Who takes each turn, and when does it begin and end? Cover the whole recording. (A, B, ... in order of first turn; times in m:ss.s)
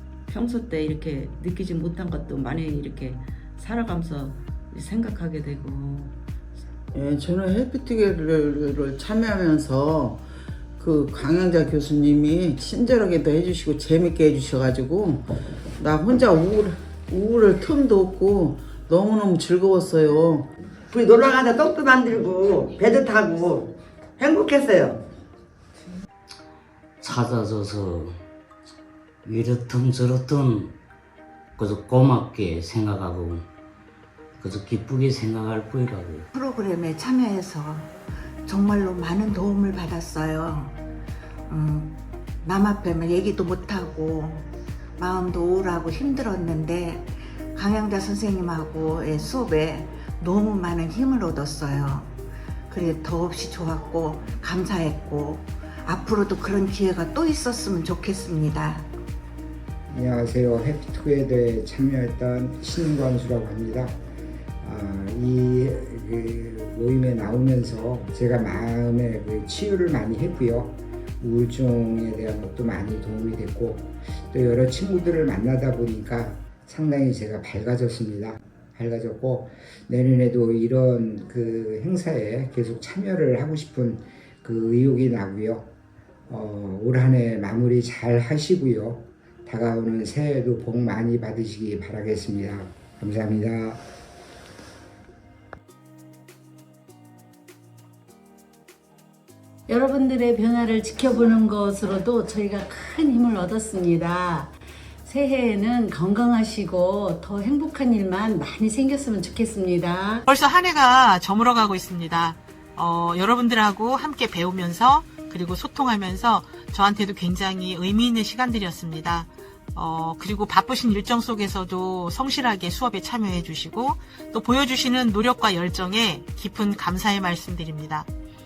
0:00.3-0:06.2 A
0:06.9-0:10.2 B
0:10.8-0:20.5 B
0:20.9-0:25.0 C
0:27.0-0:28.2 D
0:29.2-0:30.7 D
0:31.6-0:33.5 D
0:34.4-0:36.3 D
0:36.3-0:37.9 E
0:38.4-0:40.8 E
0:41.5-0:44.5 E
0:45.0-0:52.1 E
0:52.7-0:58.8 E
0:59.9-1:04.0 F
1:04.6-1:25.7 F
1:26.3-1:33.8 F
1:39.7-1:50.2 G
1:50.2-2:08.1 H